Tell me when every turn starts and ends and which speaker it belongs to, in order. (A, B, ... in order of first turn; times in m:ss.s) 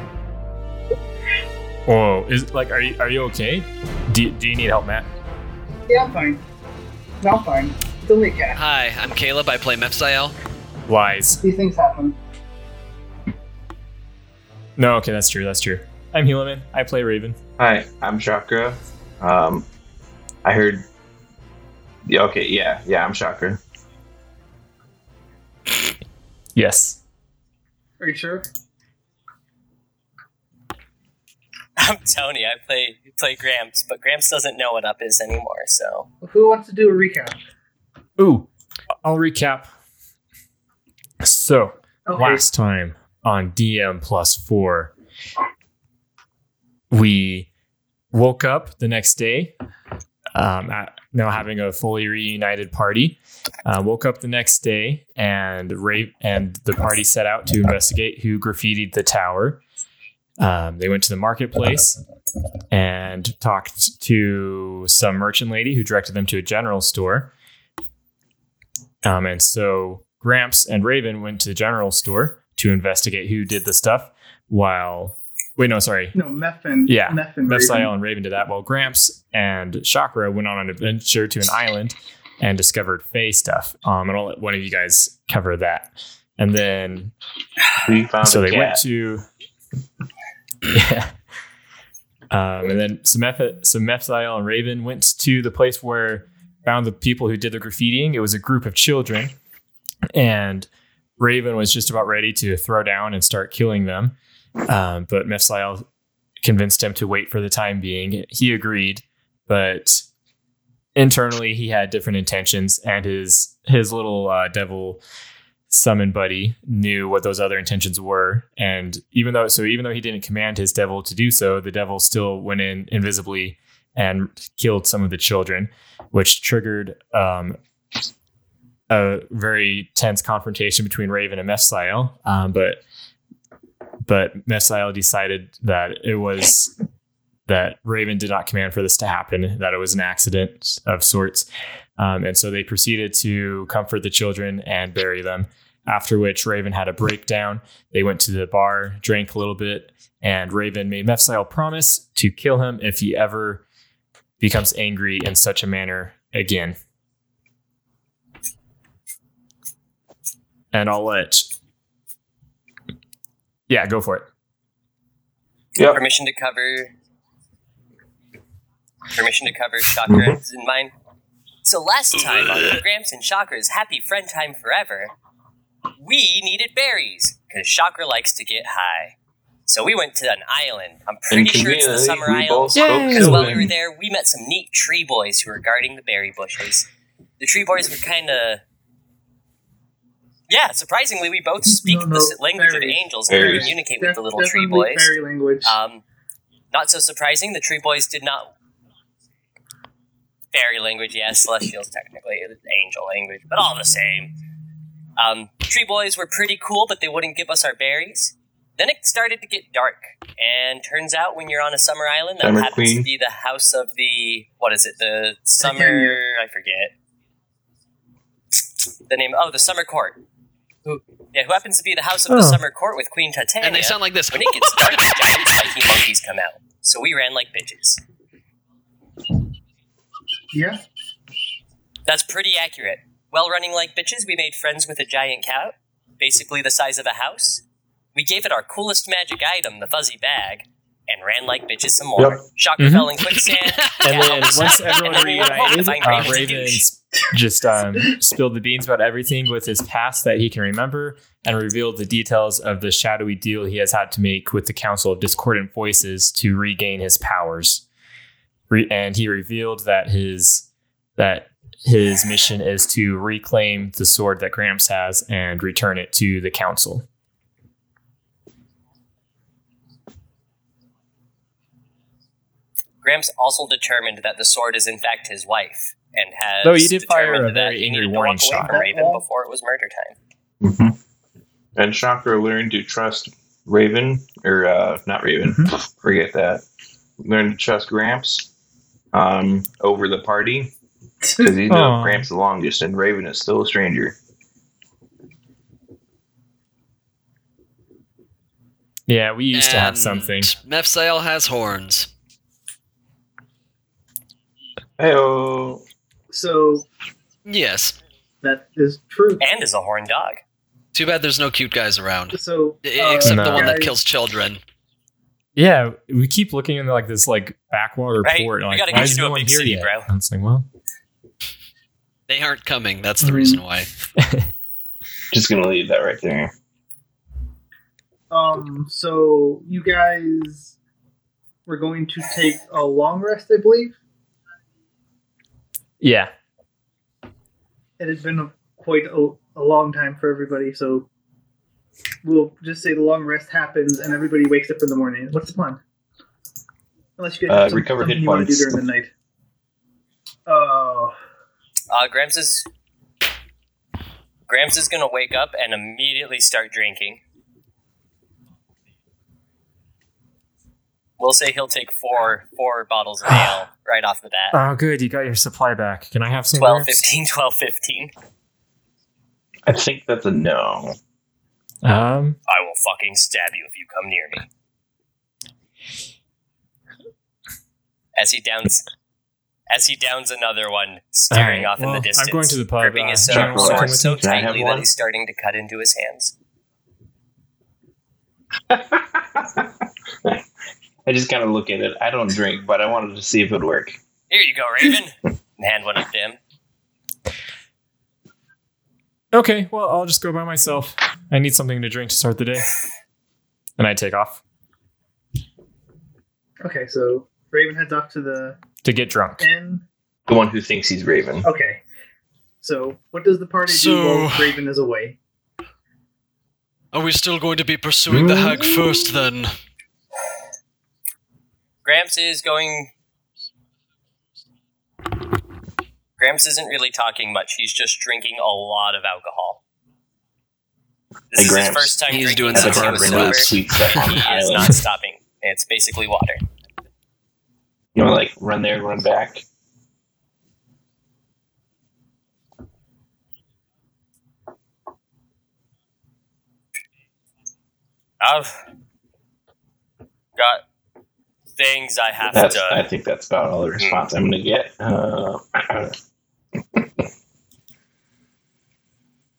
0:01.8-0:05.1 A
0:05.9-0:06.4 B
0:07.2-0:08.6 B
0:08.5-0:10.4 C
0:10.9-0:11.4 A
0:11.4-0:12.2 B
0:14.8-0:17.4 A
0:17.6-0:19.7 D
0:20.4-0:20.9 D
0:22.0-0:23.6 D
0:26.5-0:27.0 A
0:28.0-0:28.4 B
0:31.8-0:36.1 E
0:36.2-0:37.4 B
0:38.2-0:38.5 A
0:39.0-0:39.7 A
0:41.2-0:44.9 A
0:42.0-0:42.4 B
0:46.9-0:47.5 A
0:48.1-0:49.5 A
0:50.3-0:59.6 A
1:00.4-1:02.0 A
1:02.7-1:07.3 A
1:09.0-1:16.1 A
1:16.1-1:17.9 B
1:16.9-1:27.1 A
1:27.8-1:28.8 D
1:28.2-1:29.3 A
1:30.7-1:31.1 A
1:32.3-1:39.4 A
1:40.1-1:40.7 A
1:41.2-1:44.2 A
1:44.7-1:45.8 A
1:46.4-1:50.0 A
1:51.0-1:55.0 A
1:55.7-2:07.6 A
2:08.9-2:12.8 A
2:14.0-2:16.7 A
2:17.5-2:33.6 A
2:34.4-2:36.8 A
2:40.7-2:41.5 A
2:43.7-2:44.3 A
2:45.8-2:46.0 D
2:45.9-2:46.9 E
2:49.1-2:50.9 E
2:50.1-2:50.4 D
2:51.6-2:55.1 E
2:56.0-2:59.1 E
2:59.7-3:06.8 E
3:01.3-3:03.7 D
3:02.7-3:03.7 A
3:07.4-3:08.6 E
3:10.5-3:15.1 E
3:11.7-3:15.7 B
3:13.3-3:13.7 D
3:15.6-3:16.0 E
3:16.7-3:18.5 E
3:20.5-3:24.3 E
3:25.2-3:36.9 E
3:32.4-3:33.1 D
3:35.6-3:36.2 B
3:39.1-3:40.2 E
3:40.8-3:48.0 E
3:42.3-3:42.6 A
3:43.6-3:45.1 C
3:50.5-3:50.8 B
3:52.0-3:57.6 E
3:58.1-4:06.8 E
4:02.2-4:02.4 D
4:02.8-4:03.1 A
4:03.9-4:04.2 C
4:04.0-4:17.8 A
4:18.7-4:27.0 A
4:33.0-4:40.2 E
4:36.6-4:38.8 A
4:38.5-4:39.2 B
4:40.6-4:41.0 D
4:41.8-4:46.6 D
4:47.2-4:48.5 D
4:49.1-4:50.7 D
4:51.2-4:51.5 B
4:51.4-4:54.2 D
4:51.7-4:52.3 A
4:59.1-5:00.5 A
4:59.5-5:02.1 C
5:05.0-5:05.8 D
5:06.3-5:06.8 B
5:07.4-5:08.0 C
5:08.4-5:09.4 B
5:09.4-5:10.4 E
5:10.9-5:14.6 C
5:12.3-5:13.9 B
5:13.2-5:13.8 A
5:15.6-5:20.7 A
5:18.2-5:20.1 E
5:22.3-5:23.9 C
5:23.2-5:23.6 B
5:24.2-5:24.5 A
5:25.3-5:26.5 D
5:28.3-5:30.7 B
5:31.6-5:33.9 B
5:36.0-5:36.3 A
5:38.0-5:41.1 B
5:42.2-5:45.8 B
5:47.2-5:49.1 B
5:47.5-5:48.8 D
5:50.4-5:51.1 B
5:51.9-5:52.6 E
5:54.5-5:57.2 E
6:01.2-6:04.6 E
6:04.5-6:07.0 A
6:06.5-6:08.1 E
6:09.6-6:11.0 D
6:11.8-6:12.4 A
6:12.5-6:14.4 E
6:18.2-6:18.8 E
6:19.7-6:26.3 E
6:21.3-6:24.2 A
6:23.3-6:24.8 D
6:28.7-6:29.7 D
6:31.0-6:34.0 D
6:34.3-6:36.4 E
6:39.3-6:42.7 A
6:43.8-6:44.4 A
6:46.6-6:48.6 B
6:48.8-6:49.5 A
6:49.4-6:49.8 B
6:50.3-6:51.5 D
6:51.4-6:51.8 B
6:52.6-6:55.2 B
6:53.6-6:54.6 C
6:56.9-6:59.5 C
6:58.1-6:58.9 D
7:01.8-7:02.9 E
7:06.2-7:09.6 E
7:11.3-7:16.4 E
7:11.3-7:14.8 D
7:12.1-7:13.9 C
7:17.9-7:19.4 D
7:28.2-7:28.6 E
7:30.4-7:30.6 E
7:31.6-7:32.8 E
7:32.3-7:36.0 D